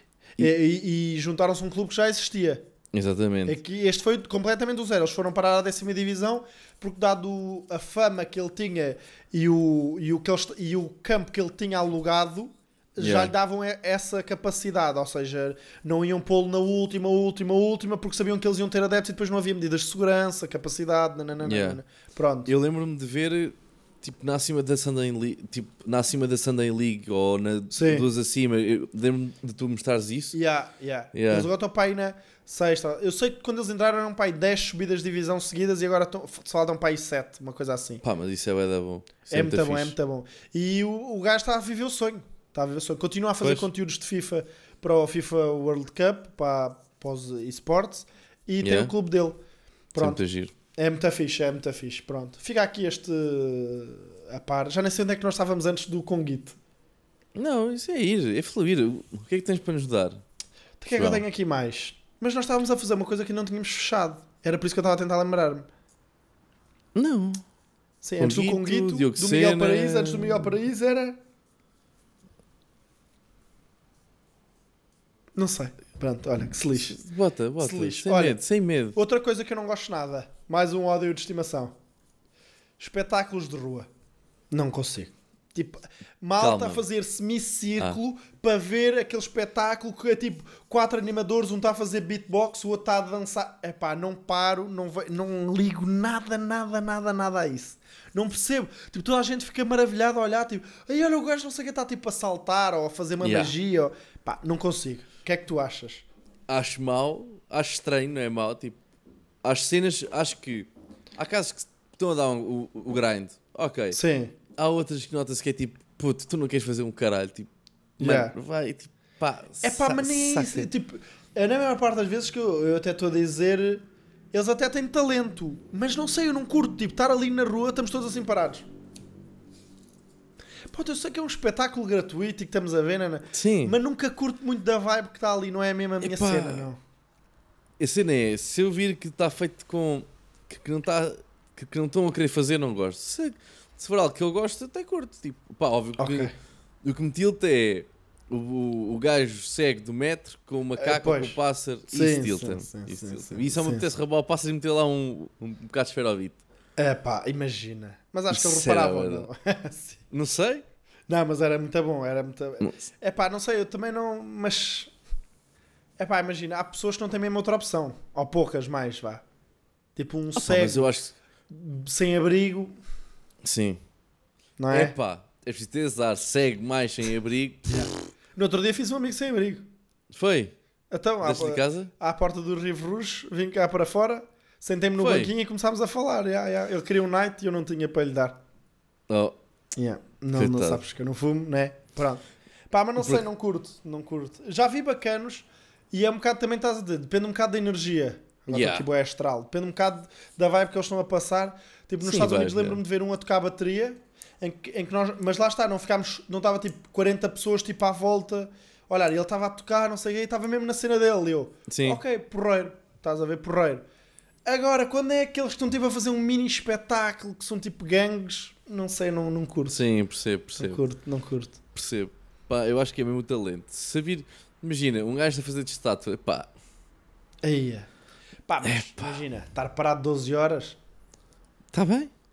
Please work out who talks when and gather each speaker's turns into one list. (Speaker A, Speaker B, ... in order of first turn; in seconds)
Speaker A: 0.4-2.6, 3.5-22.5, 27.7-28.1, 30.3-38.0, 39.3-49.4, 49.9-50.2, 50.7-56.6, 60.8-65.7, 68.0-71.2, 75.3-77.0, 77.6-78.4, 78.9-81.7, 82.8-83.9, 84.5-106.0, 113.9-114.3, 118.0-118.3, 119.6-128.7, 130.7-136.8, 146.0-146.3, 150.8-153.8, 156.8-160.0, 161.1-164.9, 166.0-169.2, 169.9-170.9, 171.5-172.7, 174.6-174.9, 177.7-179.7, 180.9-188.4, 189.8-213.8, 214.4-219.8, 220.6-221.6, 227.4-227.9, 228.4-230.8
Speaker B: 2.9-3.6, 13.0-13.3, 21.4-21.8, 22.4-30.4, 31.1-31.5, 38.0-40.0, 43.4-43.7, 48.6-48.9, 50.0-50.5, 57.3-60.2, 60.9-61.2, 66.9-67.4, 68.2-70.5, 76.7-79.0, 86.4-86.8, 103.2-103.5, 106.5-108.8, 109.4-114.0, 114.5-120.7, 133.3-133.8, 136.0-136.7, 137.8-146.3, 146.8-156.4, 158.3-159.3, 160.1-160.6, 170.3-171.1, 173.4-173.8, 174.7-177.7, 180.1-180.5, 181.2-181.9, 185.0-185.3, 189.1-189.3, 190.3-190.8, 193.0-193.2, 198.5-198.9, 202.0-202.8, 211.7-212.0, 219.7-220.8, 221.7-226.5, 228.6-229.2, 231.7-232.1